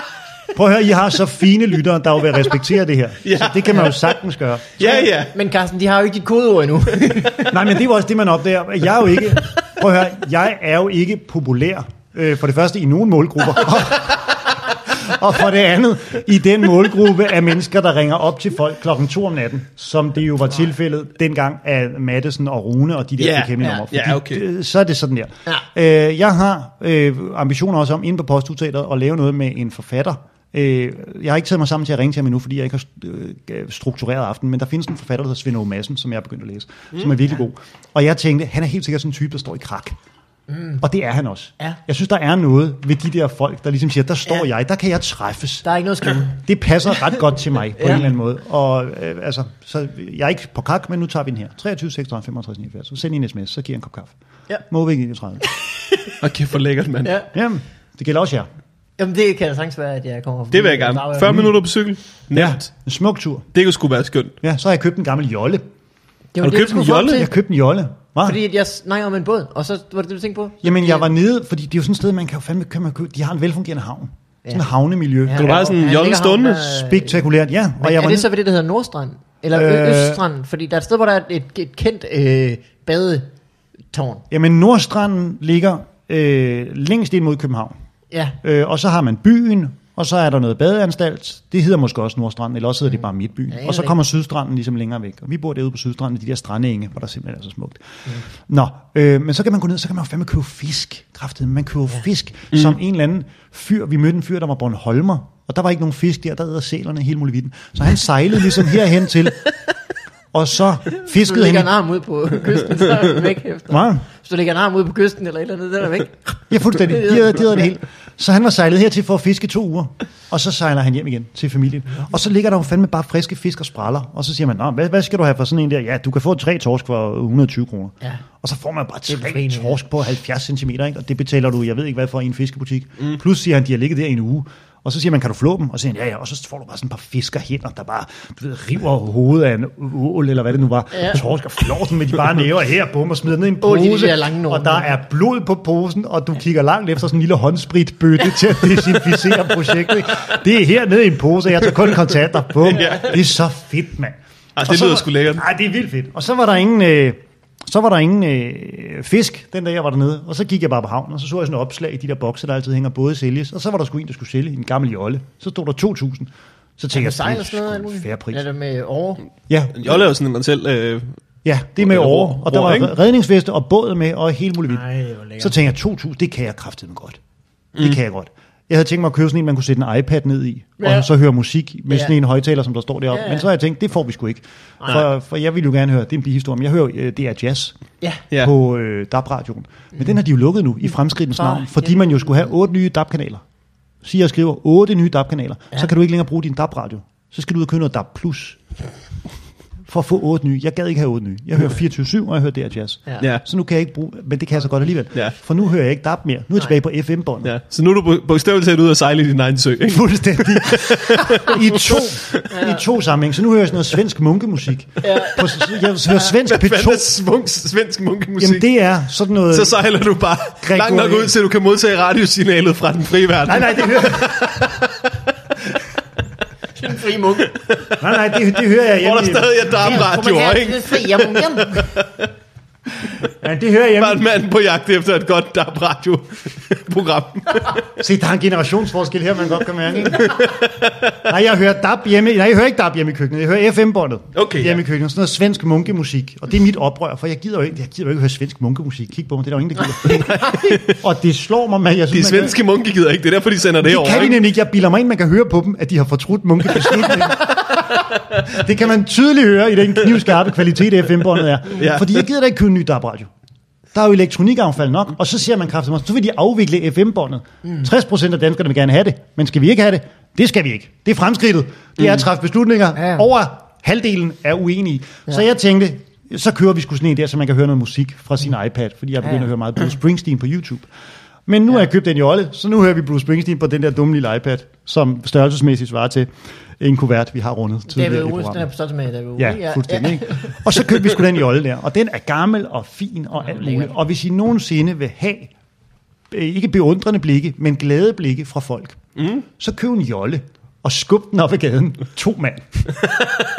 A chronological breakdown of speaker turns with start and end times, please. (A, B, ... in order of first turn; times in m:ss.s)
0:00.5-0:04.8 A
0:03.2-0:04.0 B
0:04.8-0:05.3 B
0:04.8-0:07.6 C
0:07.5-0:40.0 A
0:23.2-0:24.4 B
0:23.6-0:23.8 C
0:40.5-0:40.8 C
0:40.8-0:45.6 A
0:45.6-0:46.4 C
0:46.2-0:54.1 A
0:47.8-0:48.0 C
0:54.7-0:55.5 A
0:55.4-0:56.2 C
0:56.2-0:57.2 B
0:57.0-0:57.3 C
0:57.3-0:58.5 A
0:59.0-1:01.5 C
1:00.5-1:02.7 B
1:01.3-1:01.6 A
1:02.3-1:03.5 A
1:03.5-1:04.4 B
1:04.4-1:05.6 A
1:06.3-1:07.3 C
1:06.4-1:07.3 B
1:06.9-1:08.4 A
1:08.2-1:11.1 C
1:10.6-1:15.5 A
1:15.2-1:17.3 C
1:15.4-1:16.8 B
1:16.7-1:18.3 A
1:17.8-1:23.3 C
1:19.5-1:20.2 A
1:23.9-1:24.2 C
1:24.3-1:27.7 A
1:28.4-1:49.4 A
1:33.5-1:34.0 C
1:50.3-1:51.7 A
1:51.0-1:57.7 C
1:53.7-1:54.0 A
1:56.5-2:48.4 A
2:09.1-2:09.8 C
2:20.9-2:21.2 C
2:23.6-2:25.0 C
2:32.6-2:33.2 B
2:34.6-2:35.4 B
2:46.9-2:49.3 C
2:49.5-2:50.1 A
2:49.7-2:51.2 B
2:51.4-2:54.8 A
2:51.8-2:53.0 B
2:54.7-2:55.6 C
2:55.4-2:57.2 A
2:57.8-3:07.8 A
3:00.8-3:01.1 C
3:01.9-3:02.1 C
3:03.1-3:03.5 C
3:08.4-3:13.4 A
3:11.4-3:12.2 C
3:14.0-3:18.6 A
3:19.9-3:27.5 A
3:27.4-3:32.5 B
3:29.9-3:37.1 A
3:32.5-3:32.8 C
3:35.0-3:35.5 C
3:36.2-3:38.7 B
3:38.4-3:39.8 A
3:39.5-3:45.0 B
3:40.6-3:41.3 A
3:43.5-3:44.8 A
3:46.8-3:47.6 C
3:47.5-3:52.3 B
3:48.0-3:50.0 A
3:49.7-3:51.9 C
3:53.4-3:54.2 A
3:54.0-3:57.9 B
3:58.0-4:00.4 A
4:00.1-4:01.2 B
4:01.2-4:12.6 A
4:04.4-4:04.8 B
4:10.0-4:11.0 B
4:12.1-4:14.4 B
4:13.8-4:17.8 A
4:18.4-4:23.3 A
4:21.6-4:22.2 B
4:23.9-4:40.9 A
4:39.2-4:39.5 C
4:41.5-4:46.3 A
4:46.8-4:48.7 A
4:47.9-4:50.8 C
4:49.4-4:55.5 A
4:53.4-4:54.0 C
4:56.3-4:59.0 A
4:59.2-4:59.5 B
4:59.6-5:03.1 A